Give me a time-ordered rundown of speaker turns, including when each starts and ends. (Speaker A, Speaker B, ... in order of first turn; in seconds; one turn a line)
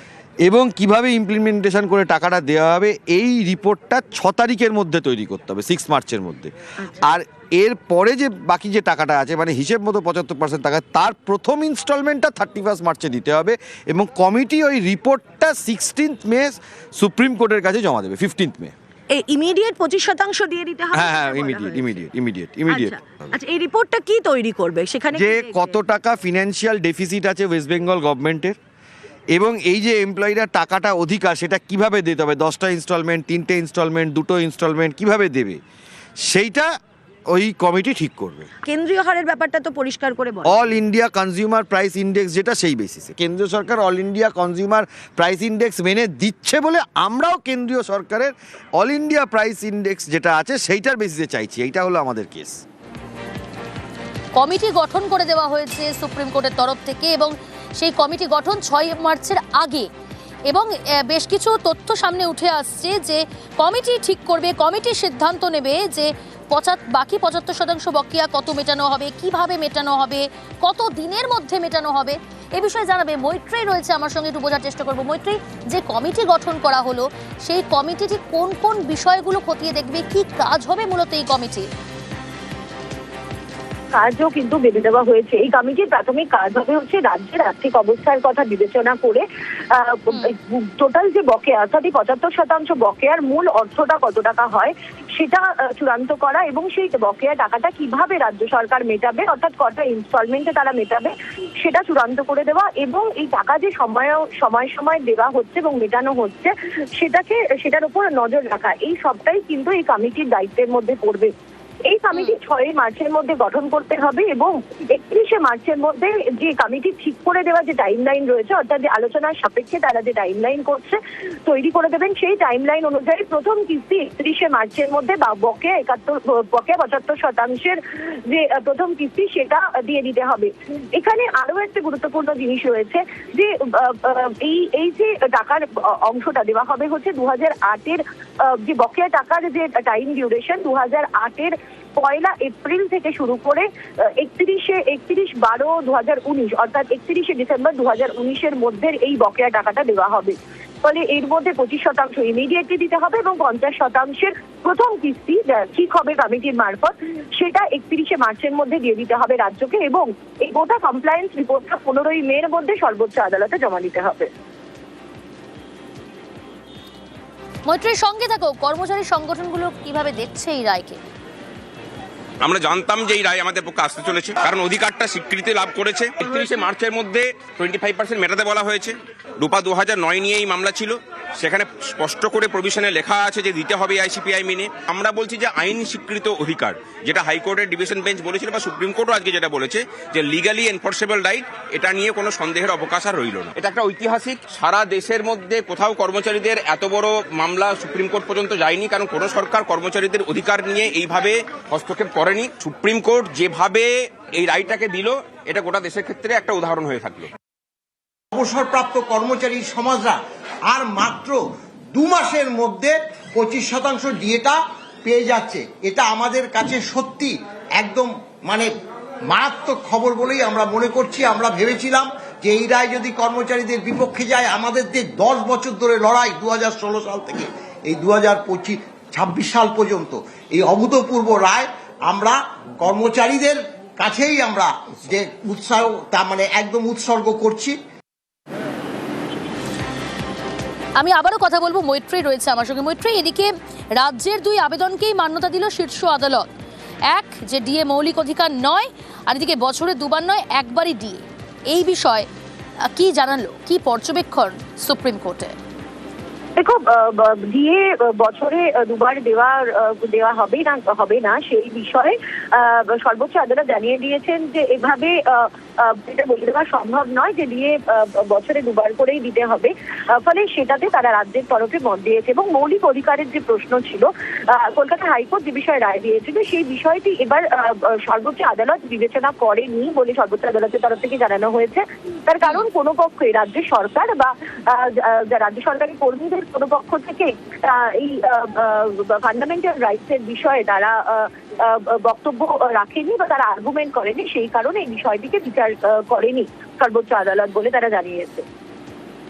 Speaker A: 0.4-18.7
Speaker B: 19.1-21.9
Speaker A: 20.9-23.0
Speaker B: 22.7-25.8
Speaker A: 25.1-28.6
Speaker A: 29.3-35.6
Speaker A: 36.3-36.7
Speaker A: 37.3-38.5
Speaker B: 38.6-40.7
Speaker A: 40.4-52.6
Speaker C: 54.4-59.9
Speaker C: 60.5-81.7
Speaker D: 83.9-111.3
Speaker D: 111.9-127.8
Speaker D: 128.3-143.6
Speaker D: 144.2-164.3
Speaker C: 167.7-171.0
Speaker E: 172.4-207.3
Speaker F: 208.3-211.4
Speaker F: 211.9-218.7
Speaker F: 219.3-237.8
Speaker C: 241.0-246.5
Speaker C: 247.1-252.3
Speaker C: 252.9-255.5
Speaker D: 256.6-298.4